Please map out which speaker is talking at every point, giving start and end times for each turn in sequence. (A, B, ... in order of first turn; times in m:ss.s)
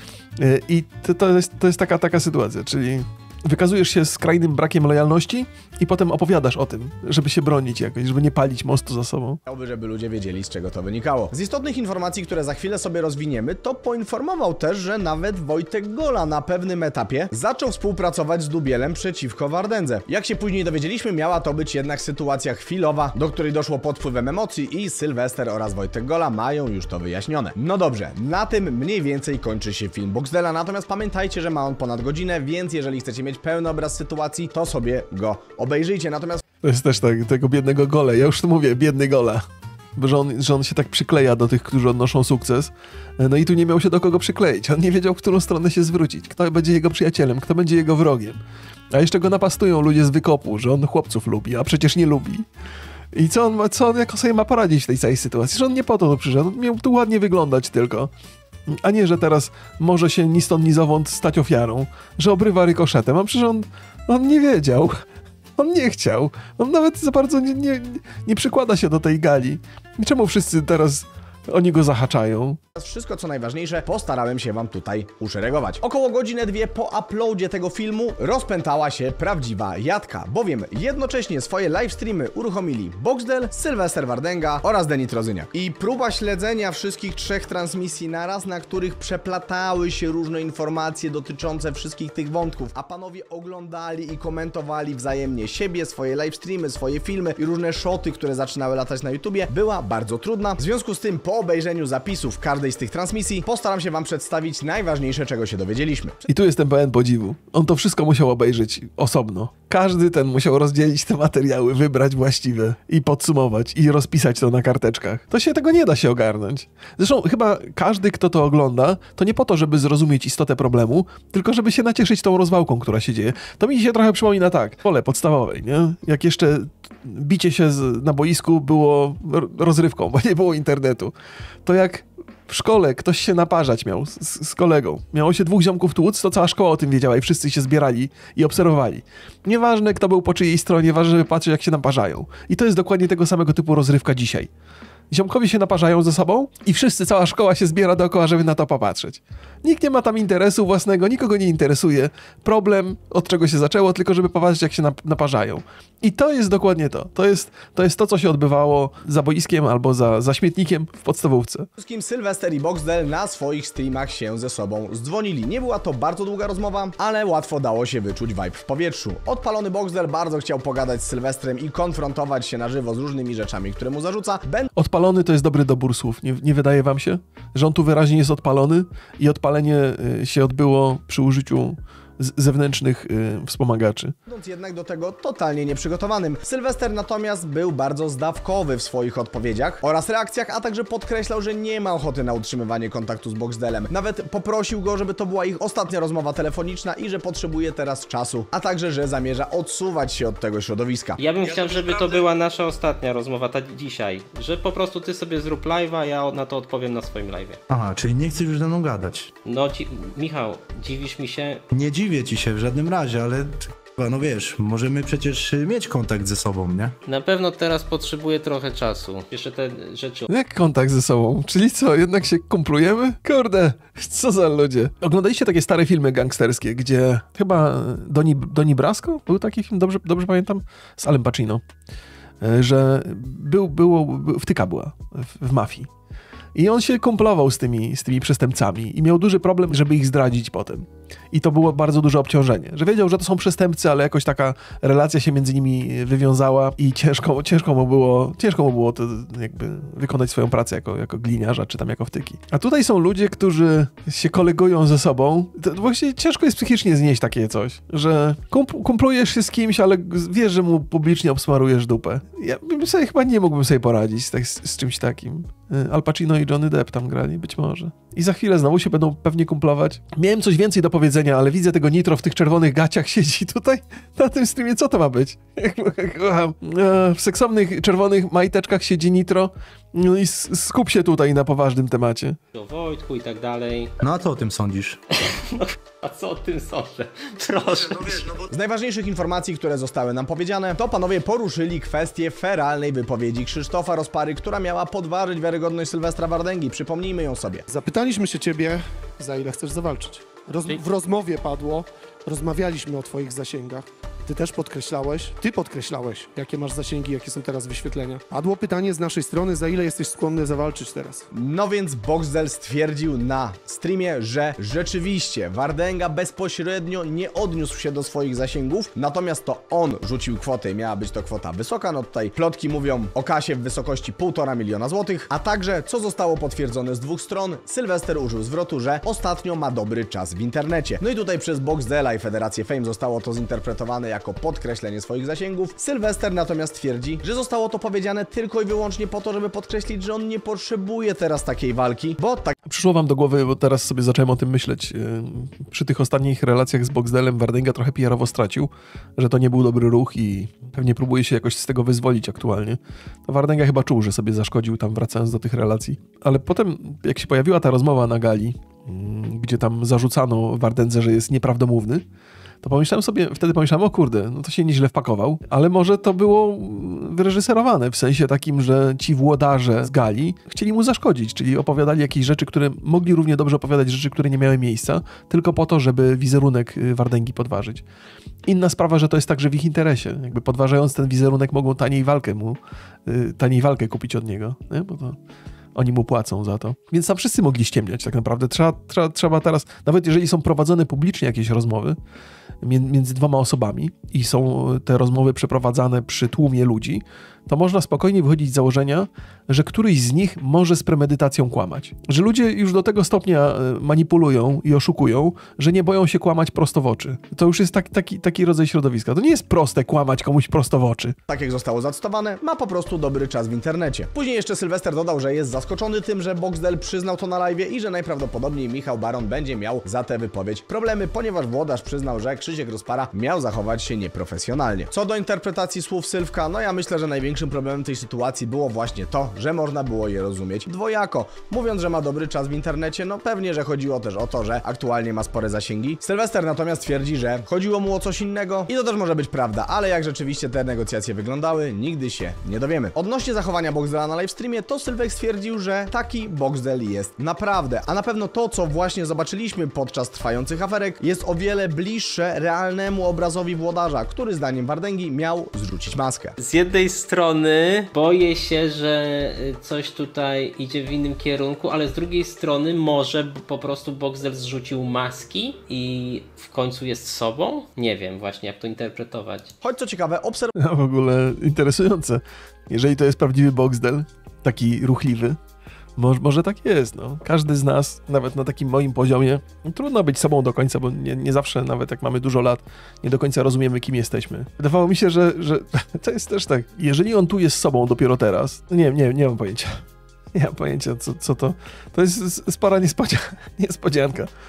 0:00.4-0:09.4 A
0:09.5-0:36.4 B
0:36.6-0:48.4 A
0:48.9-0:52.4 A
0:53.1-0:58.1 A
0:58.7-1:05.0 A
1:05.6-1:12.6 A
1:12.8-1:46.2 B
1:46.3-2:11.1 A
2:11.6-2:24.5 A
2:25.1-2:41.7 A
2:41.8-2:54.7 B
2:54.8-3:04.1 A
3:04.3-3:21.2 B
3:21.2-3:27.6 C
3:21.4-3:22.2 D
3:27.7-3:29.3 D
3:29.4-3:31.6 C
3:31.7-3:37.0 D
3:37.0-3:40.3 C
3:40.3-3:51.6 A
3:52.4-3:55.9 A
3:56.6-4:42.4 A
4:42.5-4:44.0 C
4:44.0-4:45.0 D
4:45.4-4:48.3 C
4:47.8-4:48.5 D
4:48.5-4:57.7 B
4:57.7-5:11.3 E
5:11.3-5:42.6 B
5:42.7-6:02.0 A
6:02.6-6:17.8 A
6:18.5-6:25.2 A
6:25.8-6:32.0 A
6:32.6-6:51.2 A
6:51.3-7:36.4 B
7:36.4-7:49.5 C
7:49.6-7:50.5 B
7:50.6-7:55.4 A
7:56.0-8:09.8 A
8:10.3-8:14.3 A